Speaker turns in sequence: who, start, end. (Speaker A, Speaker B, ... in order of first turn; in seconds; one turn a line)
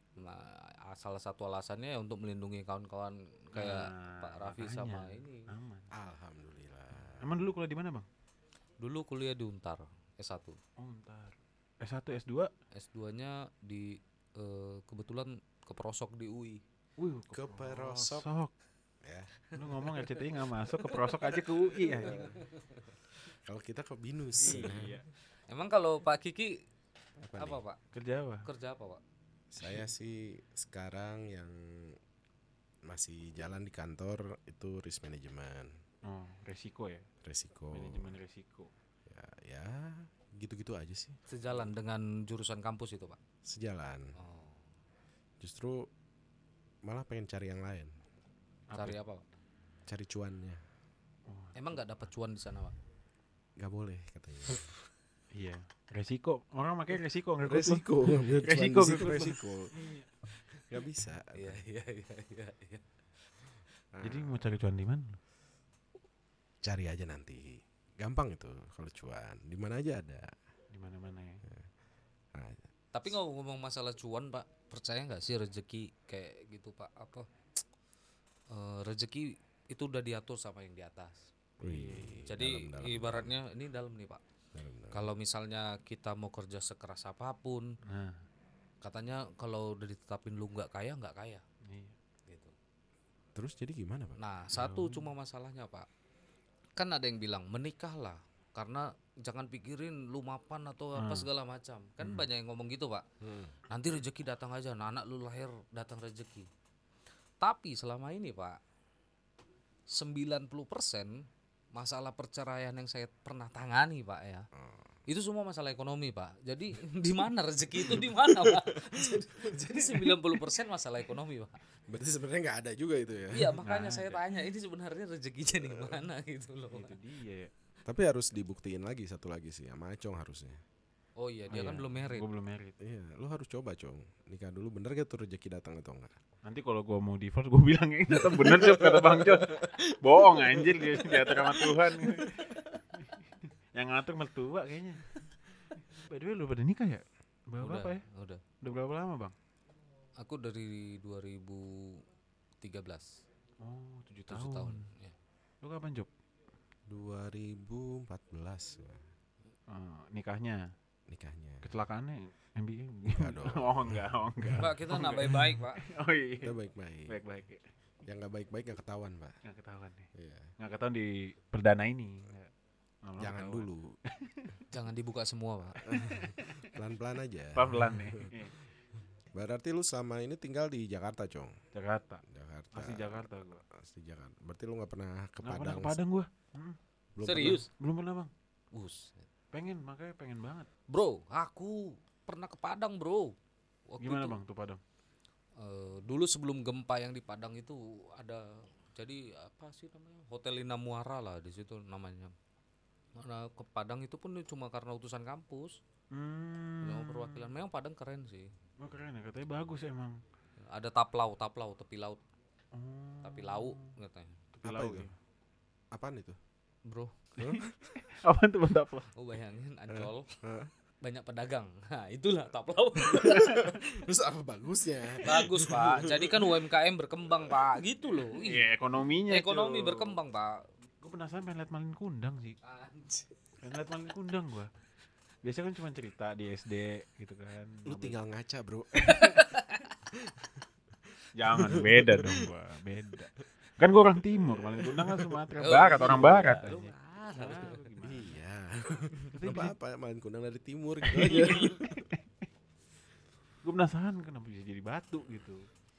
Speaker A: 0.1-5.5
Speaker B: 3.5-5.9
Speaker C: 5.9-7.4
Speaker B: 7.0-8.1
Speaker A: 8.8-10.6
Speaker B: 10.8-12.5
Speaker A: 12.7-16.6
Speaker B: 17.0-18.5
Speaker C: 17.3-18.3
Speaker C: 19.0-19.3
Speaker A: 19.5-22.9
Speaker B: 19.5-22.2
Speaker C: 22.0-22.4
Speaker C: 23.3-24.9
Speaker B: 24.4-25.1
Speaker A: 25.5-26.6
Speaker C: 27.2-27.6
Speaker A: 27.4-27.8
Speaker B: 27.9-28.5
Speaker A: 28.4-29.0
Speaker C: 29.5-32.0
Speaker C: 32.9-35.7
Speaker B: 36.0-37.1
Speaker C: 37.2-38.2
Speaker B: 37.7-38.7
Speaker C: 39.0-41.2
Speaker A: 41.3-43.2
Speaker C: 43.4-44.1
Speaker A: 44.1-44.7
Speaker C: 45.4-45.9
Speaker C: 46.8-47.9
Speaker B: 48.7-49.0
Speaker A: 48.7-49.2
Speaker C: 49.9-50.6
Speaker B: 51.3-52.0
Speaker A: 51.5-52.7
Speaker C: 53.6-54.7
Speaker B: 55.3-60.0
Speaker C: 57.4-59.7
Speaker C: 60.6-61.6
Speaker A: 61.3-62.8
Speaker C: 63.9-64.4
Speaker B: 64.0-65.2
Speaker C: 66.6-70.3
Speaker B: 70.7-71.4
Speaker C: 72.3-72.6
Speaker A: 72.9-77.3
Speaker A: 78.5-81.3
Speaker C: 81.6-83.3
Speaker B: 81.6-82.3
Speaker A: 82.3-84.2
Speaker C: 84.5-85.1
Speaker A: 84.9-87.7
Speaker B: 87.8-88.2
Speaker A: 88.8-91.4
Speaker B: 91.6-91.9
Speaker A: 92.3-92.5
Speaker C: 93.3-94.2
Speaker A: 94.2-95.9
Speaker B: 94.5-95.1
Speaker A: 96.8-103.0
Speaker B: 101.0-101.3
Speaker B: 102.0-102.3
Speaker C: 103.2-103.5
Speaker A: 103.7-106.5
Speaker A: 107.4-108.6
Speaker A: 109.9-114.5
Speaker C: 114.5-114.9
Speaker A: 115.1-121.6
Speaker C: 117.8-120.2
Speaker C: 121.9-123.5
Speaker A: 123.3-126.9
Speaker B: 123.6-124.2
Speaker C: 125.5-126.0
Speaker B: 126.7-127.5
Speaker C: 127.8-130.6
Speaker A: 131.2-132.2
Speaker B: 131.5-132.7
Speaker C: 132.8-136.2
Speaker B: 136.4-148.0
Speaker C: 138.1-142.6
Speaker A: 147.6-148.4
Speaker B: 148.6-149.3
Speaker A: 150.2-152.0
Speaker A: 152.6-153.2
Speaker B: 153.6-154.9
Speaker A: 154.3-155.1
Speaker B: 155.6-156.1
Speaker C: 156.9-159.0
Speaker B: 159.7-160.6
Speaker C: 161.1-161.7
Speaker B: 161.6-167.6
Speaker C: 163.1-164.7
Speaker A: 164.5-165.8
Speaker C: 166.4-167.2
Speaker C: 168.0-169.4
Speaker B: 169.4-172.5
Speaker C: 170.1-170.5
Speaker B: 173.0-174.5
Speaker C: 173.2-173.9
Speaker A: 174.7-175.9
Speaker C: 175.8-178.3
Speaker B: 176.0-176.7
Speaker B: 177.5-178.6
Speaker C: 179.3-181.6
Speaker B: 181.7-182.2
Speaker C: 182.2-186.0
Speaker B: 182.7-183.6
Speaker B: 185.4-186.8
Speaker C: 187.2-187.6
Speaker A: 187.2-187.7
Speaker B: 187.3-188.3
Speaker A: 188.7-189.2
Speaker B: 189.5-190.7
Speaker A: 190.9-193.3
Speaker A: 193.9-194.4
Speaker B: 194.0-194.8
Speaker A: 195.6-202.3
Speaker A: 203.2-205.8
Speaker B: 206.1-207.5
Speaker A: 206.8-208.5
Speaker B: 208.8-210.2
Speaker A: 210.6-212.2
Speaker B: 212.7-213.9
Speaker A: 213.2-214.4
Speaker B: 214.5-215.1
Speaker C: 214.6-215.1
Speaker C: 215.9-216.4
Speaker A: 216.9-217.2
Speaker C: 217.4-218.0
Speaker B: 217.5-219.1
Speaker A: 219.1-220.3
Speaker C: 219.9-220.7
Speaker A: 221.0-223.7
Speaker C: 223.1-226.6
Speaker B: 223.2-223.7
Speaker A: 225.2-228.7
Speaker C: 227.3-227.7
Speaker B: 228.3-230.2
Speaker A: 229.3-230.6
Speaker B: 231.0-232.6
Speaker A: 232.6-233.4
Speaker B: 233.6-234.7
Speaker B: 235.4-238.2
Speaker C: 237.8-239.3
Speaker A: 239.0-239.9
Speaker B: 241.3-248.3
Speaker C: 241.5-242.5
Speaker C: 244.3-245.5
Speaker A: 245.6-247.8
Speaker C: 248.0-252.1
Speaker B: 249.3-249.7
Speaker B: 251.1-252.2
Speaker A: 251.2-251.8
Speaker B: 253.6-255.6